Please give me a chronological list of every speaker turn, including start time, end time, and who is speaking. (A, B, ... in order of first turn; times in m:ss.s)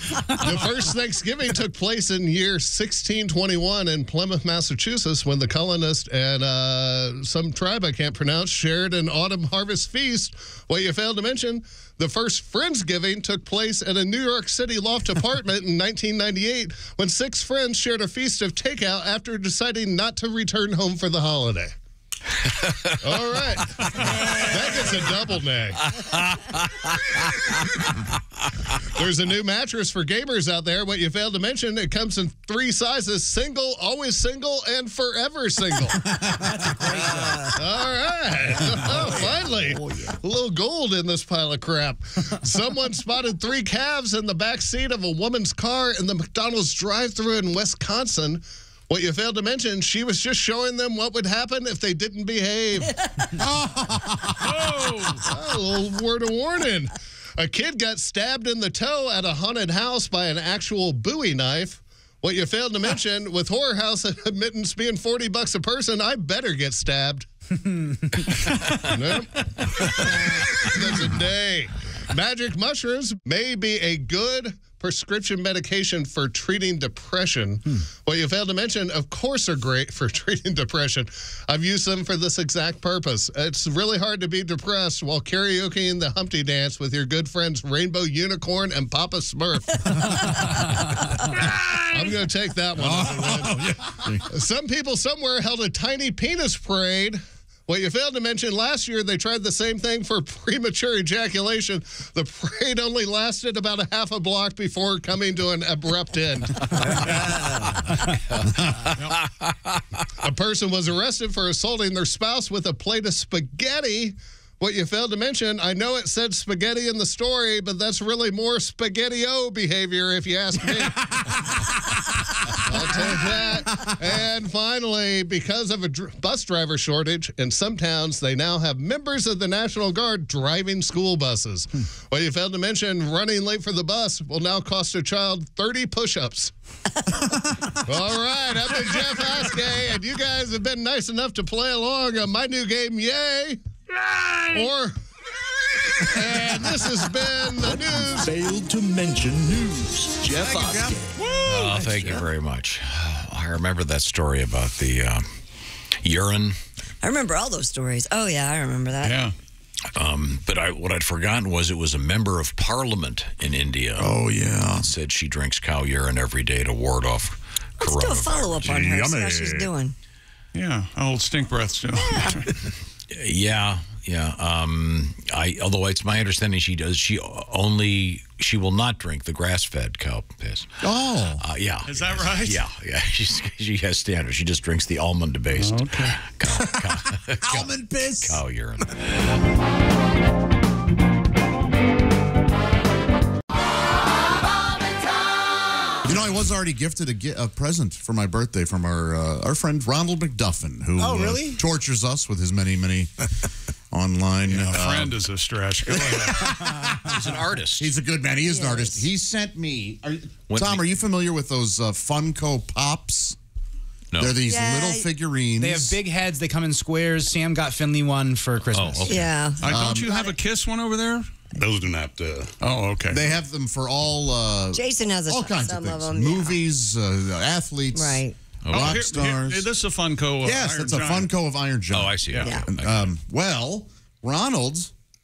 0:00.3-0:21.7 A
0:23.0-0:25.8 A
0:24.0-0:25.0 B
0:26.0-0:26.8 C
0:28.9-0:36.1 A
0:36.3-0:37.4 D
0:36.9-0:37.5 E
0:37.4-0:52.9 A
0:38.6-0:40.2 E
0:53.4-0:54.7 F
0:54.4-0:55.2 G
0:55.2-1:07.3 A
1:08.3-1:30.7 A
1:31.2-1:33.7 A
1:32.8-1:34.3 F
1:34.3-1:47.3 A
1:47.1-1:47.5 E
1:49.2-1:49.8 C
1:50.2-2:01.3 A
2:02.5-2:16.5 A
2:02.7-2:03.3 F
2:17.8-2:24.9 A
2:26.0-2:28.3 A
2:27.6-2:32.2 E
2:30.3-2:31.0 F
2:31.2-2:31.8 G
2:31.4-2:35.2 C
2:36.0-2:36.6 C
2:37.0-2:39.2 B
2:39.0-2:39.3 G
2:39.9-2:44.2 C
2:44.0-2:44.9 F
2:44.8-2:48.8 C
2:47.8-2:49.9 B
2:48.6-2:49.7 F
2:50.5-2:52.5 G
2:52.0-2:52.4 B
2:53.1-3:00.8 C
3:00.8-3:01.4 F
3:01.4-3:09.4 C
3:01.9-3:02.6 G
3:05.5-3:06.2 G
3:06.6-3:08.4 F
3:16.0-3:23.3 F
3:21.0-3:21.6 D
3:23.9-3:25.2 F
3:24.5-3:26.5 G
3:25.8-3:33.4 F
3:27.0-3:27.9 C
3:28.4-3:29.0 B
3:30.5-3:30.9 C
3:34.1-3:34.4 C
3:34.2-3:36.0 F
3:34.4-3:35.1 B
3:35.6-3:39.3 D
3:38.7-3:39.3 C
3:39.1-3:40.3 B
3:39.6-3:41.3 G
3:39.6-3:40.2 F
3:41.6-3:42.5 F
3:42.6-3:43.2 G
3:43.1-3:49.7 F
3:44.7-3:46.6 B
3:47.9-3:48.4 B
3:48.6-3:49.0 C
3:48.7-3:51.3 G
3:50.4-3:54.9 F
3:51.9-3:53.1 C
3:52.3-3:52.6 G